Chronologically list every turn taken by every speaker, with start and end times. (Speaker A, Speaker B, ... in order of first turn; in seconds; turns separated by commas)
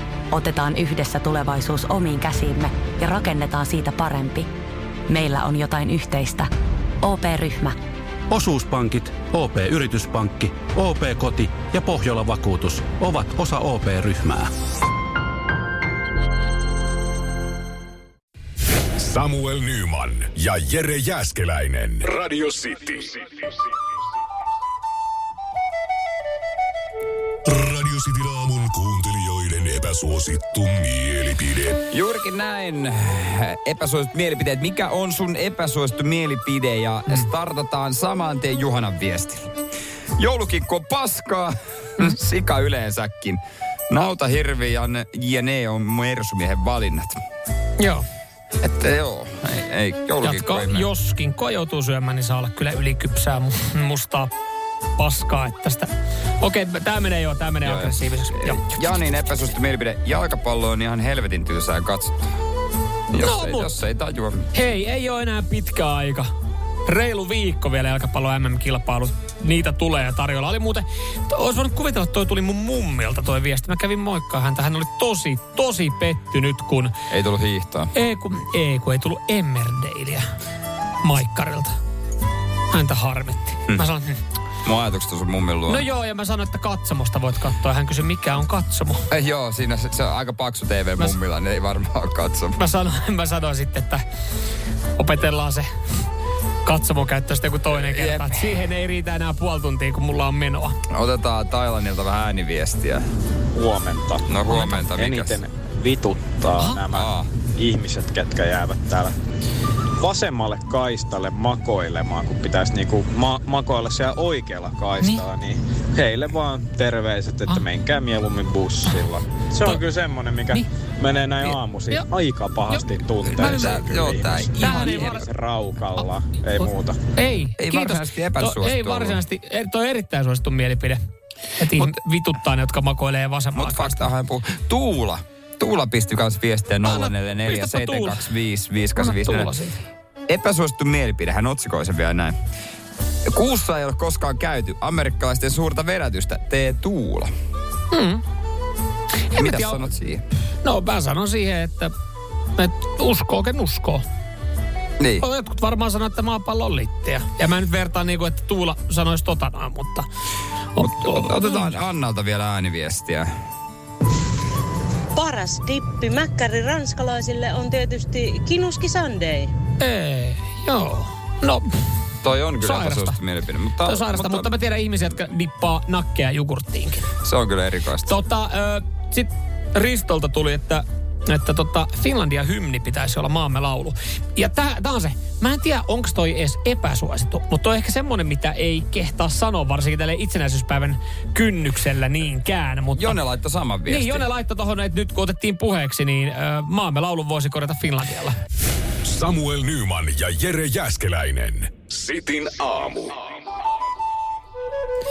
Speaker A: 0.3-4.5, Speaker A: 5.1-6.5, Speaker A: 7.0-7.8, Speaker B: 8.3-14.5, Speaker C: 19.0-23.2, Speaker C: 27.4-31.8, Speaker D: 31.9-39.5, Speaker D: 40.2-47.1, Speaker E: 47.8-48.0, Speaker D: 48.6-50.9, Speaker E: 50.2-54.3, Speaker E: 55.0-59.2, Speaker D: 57.6-62.1, Speaker D: 63.1-64.5, Speaker E: 63.2-63.7, Speaker E: 64.5-66.3, Speaker E: 66.8-76.9, Speaker D: 77.1-77.9, Speaker E: 77.9-80.2, Speaker E: 81.0-81.7, Speaker E: 82.7-84.2, Speaker D: 84.6-85.8, Speaker E: 85.7-89.0, Speaker D: 89.1-92.6, Speaker E: 92.6-94.0, Speaker E: 95.0-95.7, Speaker E: 96.6-100.8, Speaker D: 97.8-98.5, Speaker D: 100.9-103.0, Speaker F: 103.5-104.2, Speaker D: 104.3-105.4, Speaker E: 104.5-104.8, Speaker F: 104.8-109.1, Speaker D: 106.9-107.3, Speaker F: 110.0-127.0, Speaker E: 122.7-123.8, Speaker D: 123.2-125.2, Speaker E: 124.4-125.3, Speaker E: 126.6-131.0, Speaker D: 127.6-129.2, Speaker E: 131.6-134.1, Speaker D: 133.5-139.5, Speaker E: 136.8-138.3, Speaker E: 138.9-139.7, Speaker D: 140.3-142.3, Speaker D: 143.3-147.3, Speaker E: 147.9-148.2, Speaker E: 149.3-149.8, Speaker D: 149.4-150.2, Speaker E: 150.6-151.9, Speaker E: 152.6-154.0, Speaker D: 155.0-155.2, Speaker E: 155.2-160.1, Speaker E: 160.7-161.7, Speaker D: 160.8-163.3, Speaker G: 165.2-169.5, Speaker E: 169.8-171.7, Speaker D: 172.2-174.5, Speaker E: 172.6-173.2, Speaker E: 173.8-177.1, Speaker D: 177.2-178.1, Speaker E: 178.1-193.2, Speaker D: 192.9-194.2, Speaker E: 193.8-198.3, Speaker C: 199.0-203.1